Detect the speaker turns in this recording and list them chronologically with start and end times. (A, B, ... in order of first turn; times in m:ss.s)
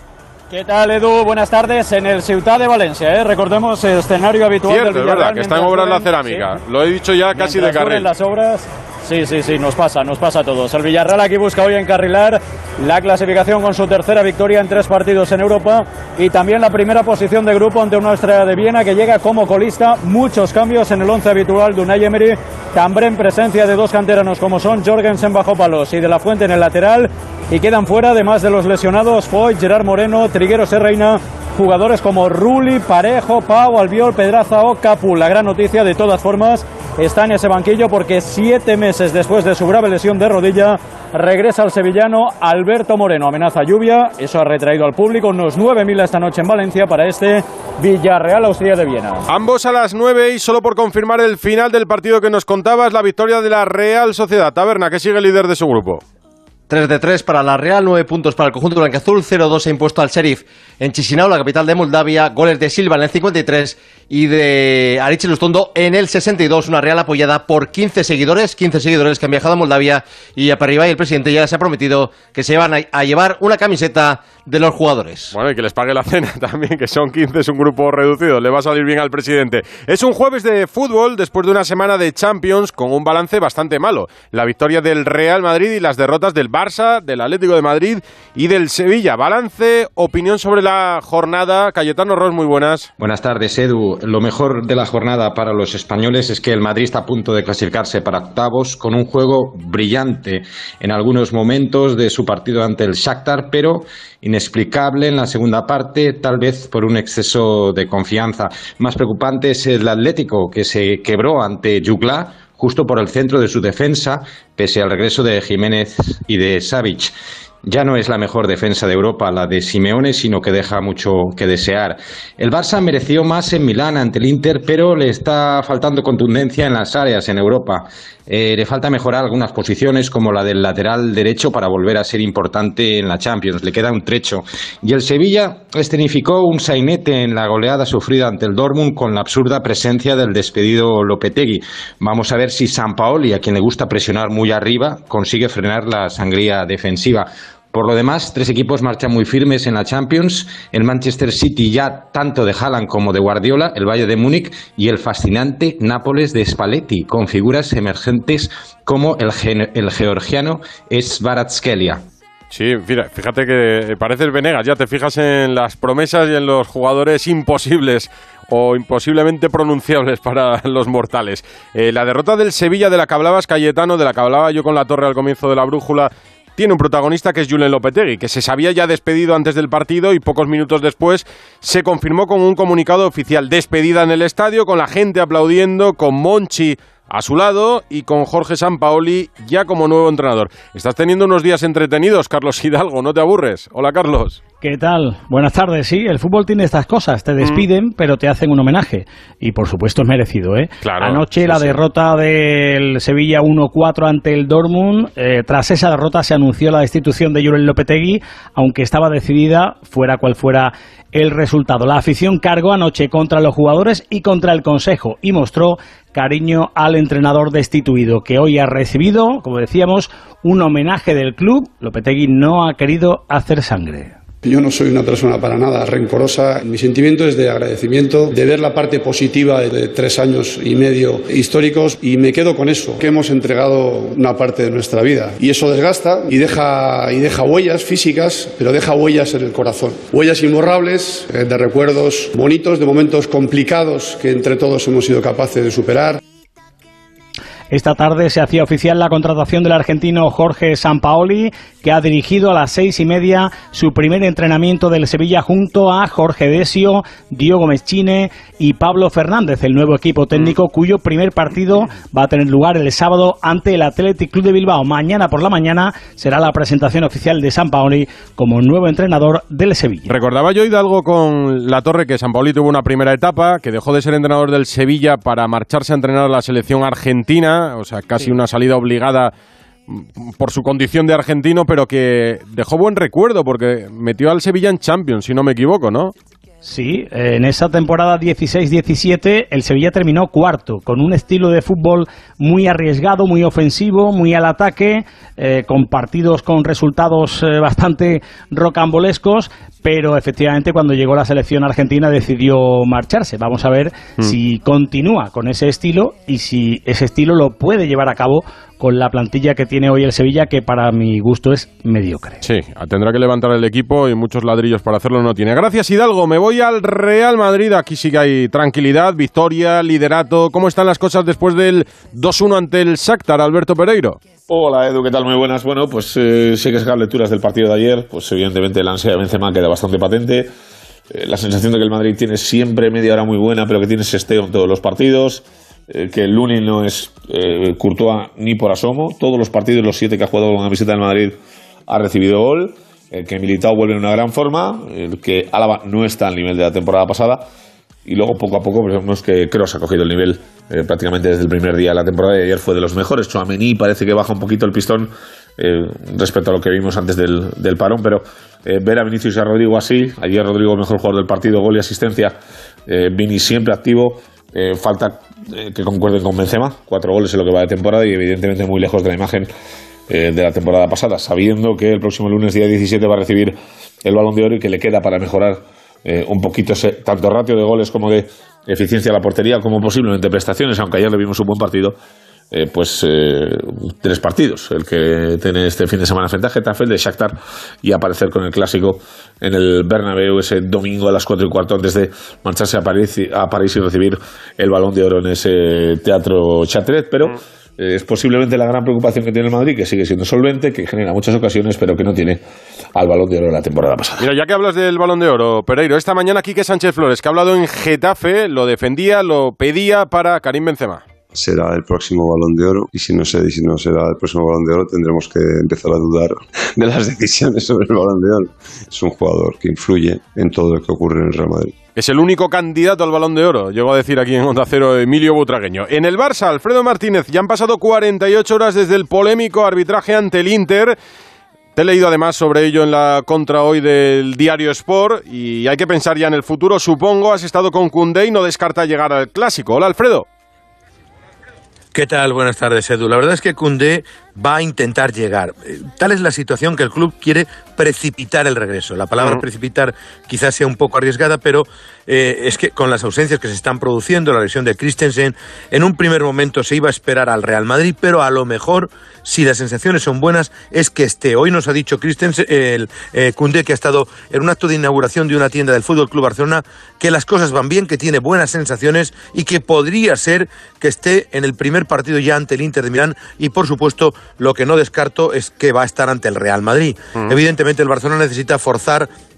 0:00.5-0:06.5 A
0:04.6-0:08.1 B
0:07.3-0:49.2 A
0:49.3-0:56.0 B
0:56.7-1:15.3 C
1:15.3-1:32.9 B
1:33.0-1:57.1 D
1:57.6-2:42.0 D
2:42.5-3:14.4 B
3:14.6-3:44.2 E
3:20.8-3:21.8 B
3:44.4-4:06.2 F
4:07.7-4:30.1 E
4:30.1-4:39.3 B
4:39.9-4:46.1 B
4:46.6-5:12.4 E
5:12.4-5:24.2 B
5:24.5-5:30.5 G
5:31.1-5:41.4 G
5:41.9-5:47.4 G
5:48.0-6:02.4 G
6:02.9-6:09.5 G
6:10.1-6:22.0 G
6:22.5-6:42.4 G
6:43.0-6:44.2 G
6:44.2-6:51.0 B
6:51.3-7:01.7 H
7:02.0-7:11.0 B
7:11.8-7:20.2 B
7:21.9-7:59.1 I